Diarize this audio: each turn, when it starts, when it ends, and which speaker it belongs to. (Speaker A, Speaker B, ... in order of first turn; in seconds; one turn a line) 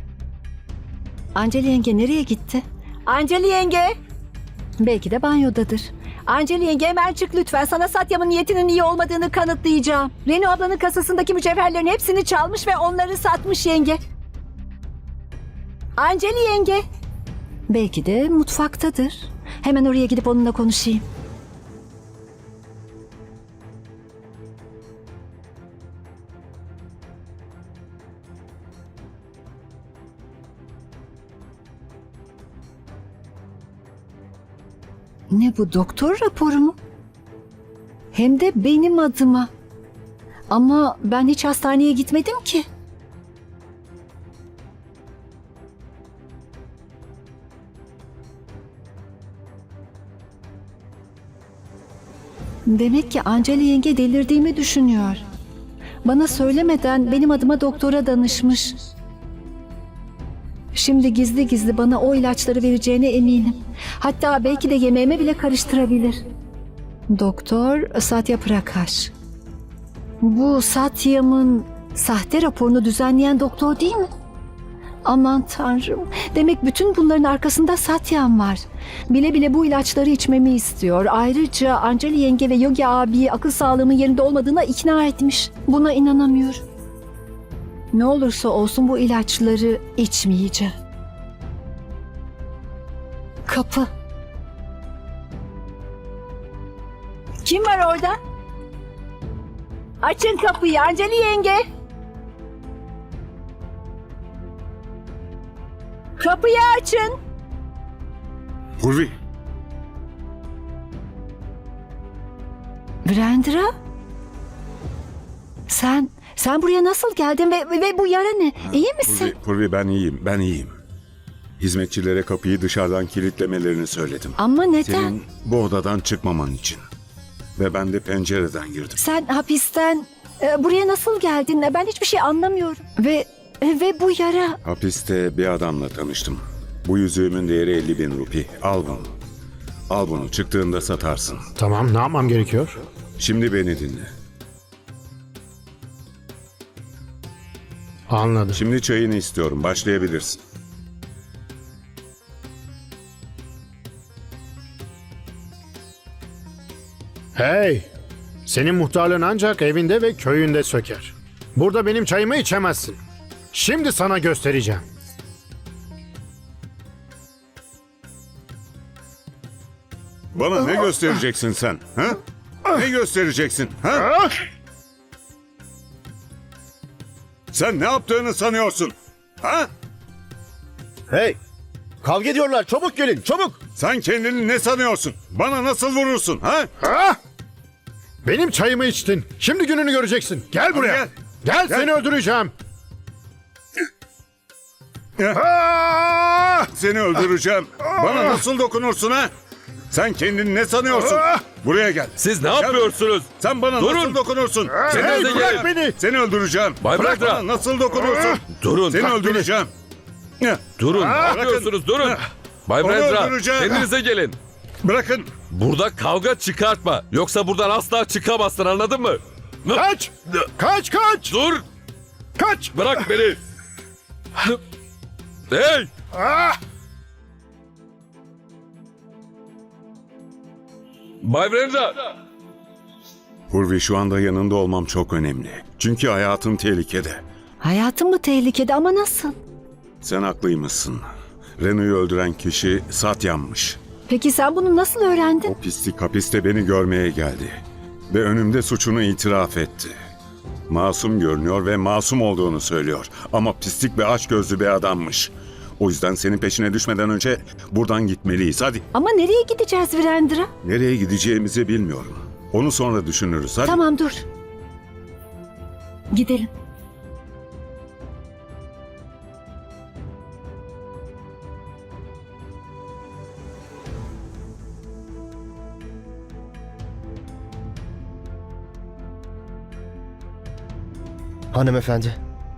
Speaker A: 1.3-3.9
Speaker A: 4.8-14.0
Speaker A: 16.0-16.8
Speaker A: 17.7-21.0
Speaker A: 35.3-36.8
Speaker A: 38.1-39.5
Speaker A: 40.5-42.6
Speaker A: 52.7-55.2
Speaker A: 56.0-58.8
Speaker A: 60.7-66.2
Speaker A: 67.1-69.1
Speaker A: 70.2-74.1
Speaker A: 75.0-86.6
Speaker A: 87.9-90.7
Speaker A: 93.5-93.9
Speaker A: 97.4-98.2
Speaker A: 100.0-101.6
Speaker A: 106.2-107.1
Speaker B: 108.8-109.1
Speaker A: 113.0-113.7
Speaker A: 115.7-119.3
Speaker B: 118.7-120.8
Speaker B: 121.6-126.8
Speaker A: 124.4-125.1
Speaker B: 127.6-129.0
Speaker A: 129.0-134.6
Speaker B: 134.6-139.1
Speaker B: 139.9-141.4
Speaker C: 141.6-142.7
Speaker B: 143.2-144.1
Speaker C: 148.1-148.6
Speaker B: 148.5-150.4
Speaker C: 157.3-157.8
Speaker C: 158.5-163.0
Speaker C: 163.5-164.8
Speaker B: 170.3-172.2
Speaker B: 172.7-174.1
Speaker B: 177.5-179.7
Speaker D: 181.1-181.3
Speaker D: 182.0-183.6
Speaker B: 183.8-186.7
Speaker C: 186.8-187.2
Speaker C: 188.2-192.5
Speaker B: 190.7-191.1
Speaker B: 191.6-191.9
Speaker B: 195.2-195.5
Speaker C: 195.4-196.6
Speaker B: 196.7-199.3
Speaker C: 198.0-198.3
Speaker B: 199.9-209.7
Speaker E: 202.2-204.2
Speaker C: 204.7-206.0
Speaker E: 205.3-205.7
Speaker E: 206.8-207.4
Speaker E: 208.6-209.1
Speaker C: 209.0-209.5
Speaker B: 210.4-212.2
Speaker E: 210.8-214.3
Speaker C: 210.9-211.4
Speaker B: 212.8-213.9
Speaker B: 214.8-215.3
Speaker E: 215.5-219.8
Speaker C: 219.7-221.4
Speaker E: 221.3-221.6
Speaker C: 222.4-223.1
Speaker E: 222.7-223.4
Speaker E: 225.5-225.9
Speaker E: 231.2-231.9
Speaker B: 233.5-237.2
Speaker A: 237.6-239.3
Speaker B: 240.0-241.1
Speaker B: 241.6-243.8
Speaker A: 244.1-245.5
Speaker B: 245.4-249.9
Speaker B: 250.7-258.8
Speaker A: 258.9-260.5
Speaker B: 260.6-263.8
Speaker A: 263.6-264.2
Speaker A: 266.1-266.5
Speaker D: 281.5-282.2